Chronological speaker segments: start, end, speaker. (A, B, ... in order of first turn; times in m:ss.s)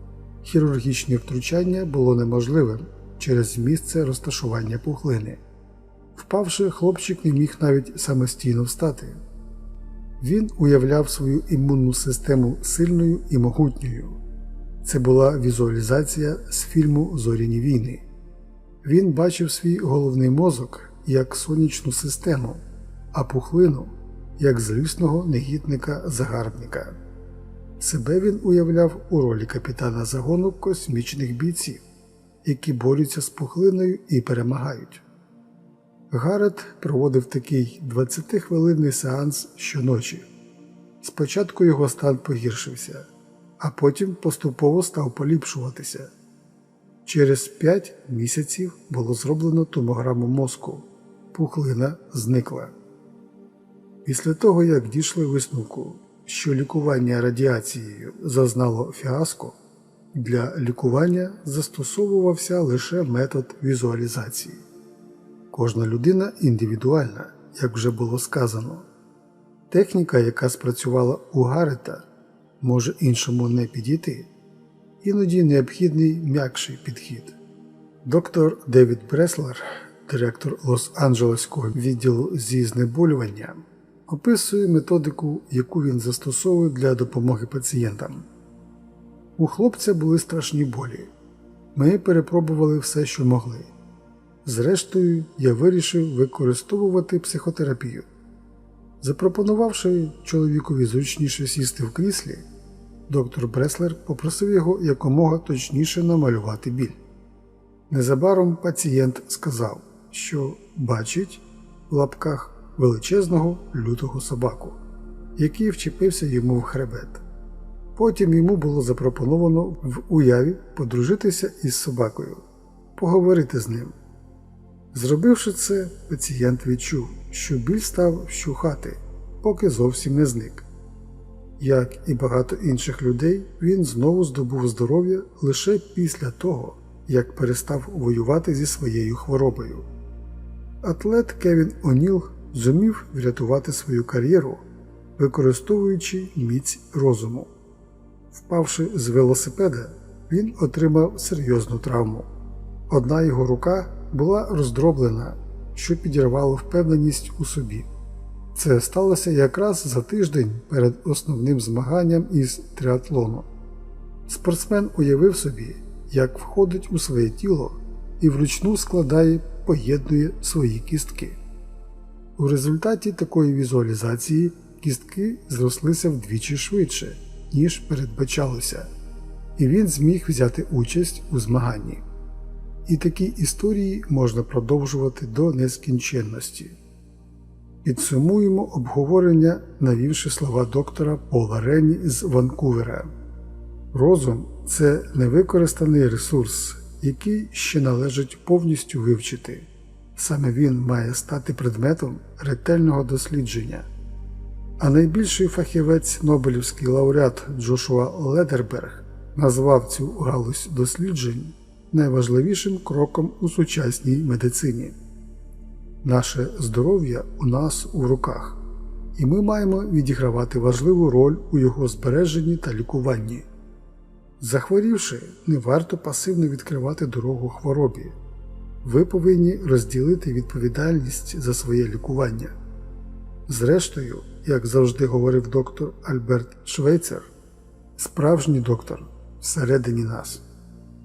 0:00.4-0:05.4 A
0:06.2-0:09.2 A
0:10.2-0:14.2 A
0:14.8-0:18.0 A
0:18.8-0:27.0 A
0:27.8-0:31.8 A
0:32.4-0:35.0 A
0:36.1-0:40.3 A
0:41.0-0:43.1 A
0:43.6-0:46.1 A
0:47.0-0:52.8 A
0:54.0-0:59.6 A
1:00.1-1:04.6 A
1:05.5-1:08.9 A
1:09.7-1:12.1 A
1:12.6-1:14.3 A
1:15.0-1:17.4 A
1:18.0-1:28.3 A
1:29.4-1:31.1 A
1:31.7-1:33.7 A
1:34.4-1:38.1 A
1:39.0-1:42.4 A
1:43.1-1:47.0 A
1:47.9-1:54.8 A
1:55.4-1:57.2 A
1:58.0-2:02.4 A
2:03.0-2:04.0 A
2:04.9-2:10.7 A
2:11.6-2:19.9 A
2:20.8-2:24.7 A
2:25.2-2:27.5 A
2:28.3-2:32.3 A
2:32.9-2:37.9 A
2:38.5-2:43.5 A
2:44.3-2:51.4 A
2:52.4-2:58.9 A
2:59.6-3:02.0 A
3:02.9-3:06.8 A
3:07.8-3:13.1 A
3:13.9-3:23.9 A
3:24.8-3:35.0 A
3:36.0-3:38.6 A
3:39.2-3:43.5 A
3:44.4-3:48.2 A
3:48.8-3:52.6 A
3:53.5-3:57.3 A
3:58.0-4:00.4 A